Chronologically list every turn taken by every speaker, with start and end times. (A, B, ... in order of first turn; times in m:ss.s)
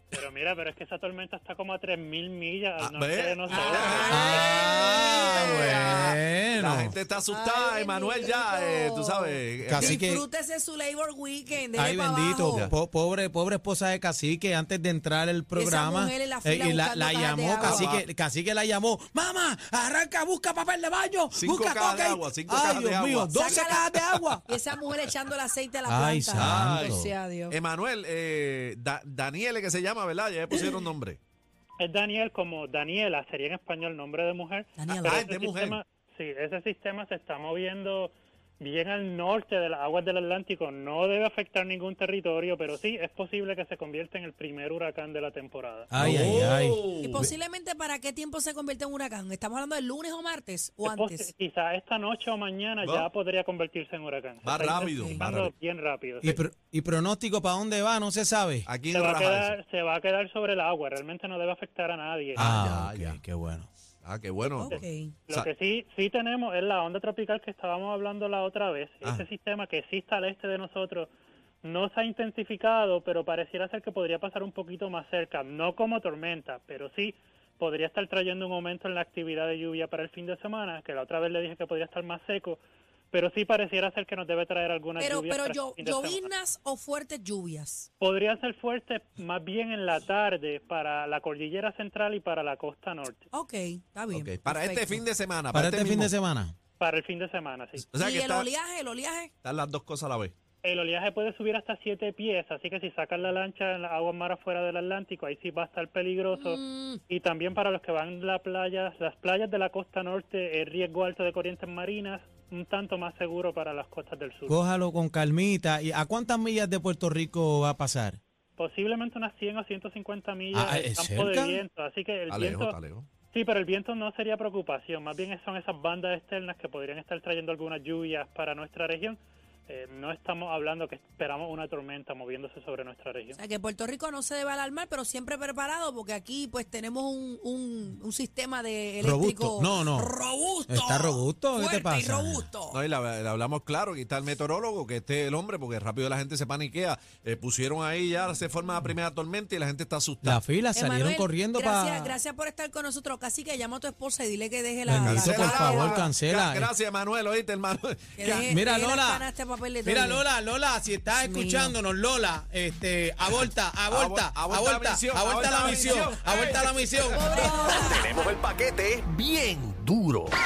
0:00.1-0:04.5 A
0:02.8-0:10.0 B
0:03.5-0:06.2 C
0:04.1-0:07.0 D
0:07.2-0:12.7 C
0:09.7-0:10.2 D
0:11.8-0:24.4 D
0:12.4-0:12.7 B
0:15.5-0:17.9 C
0:17.6-0:18.1 B
0:21.3-0:24.2 B
0:23.3-0:27.6 C
0:25.9-0:27.1 D
0:26.4-0:27.0 B
0:27.5-0:31.2 B
0:31.8-0:46.3 A
0:34.8-0:35.2 C
0:34.9-0:35.8 B
0:45.9-0:47.3 D
0:46.0-0:47.3 B
0:47.0-0:51.3 C
0:50.8-0:56.4 A
0:52.8-0:53.1 B
0:54.4-0:55.5 B
0:55.0-0:55.2 C
0:56.2-0:58.7 D
0:58.7-0:59.6 B
0:58.9-1:02.5 A
1:02.4-1:03.2 B
1:02.4-1:03.7 D
1:04.0-1:05.5 B
1:04.6-1:05.2 C
1:04.7-1:11.1 A
1:11.6-1:22.6 A
1:23.1-1:26.3 A
1:25.0-1:27.9 C
1:28.0-1:33.2 A
1:33.3-1:35.0 C
1:34.1-1:36.1 B
1:35.5-1:36.6 D
1:36.8-1:37.9 A
1:37.9-1:38.5 B
1:38.0-1:39.3 C
1:39.4-1:40.3 B
1:40.6-1:54.6 A
1:46.3-1:47.0 C
1:54.5-1:58.2 D
1:58.6-2:02.8 A
2:00.5-2:01.6 D
2:02.3-2:03.1 B
2:03.3-2:13.4 A
2:13.4-2:22.8 C
2:19.0-2:20.1 D
2:20.7-2:22.5 D
2:22.7-2:30.4 B
2:30.2-2:32.2 D
2:30.7-2:36.1 C
2:34.9-2:36.7 D
2:35.0-2:38.5 B
2:38.2-2:40.2 C
2:38.3-2:39.2 D
2:39.8-2:48.0 D
2:41.1-2:41.8 C
2:43.9-2:47.1 B
2:45.6-2:46.1 C
2:47.1-2:48.3 C
2:47.8-2:50.4 E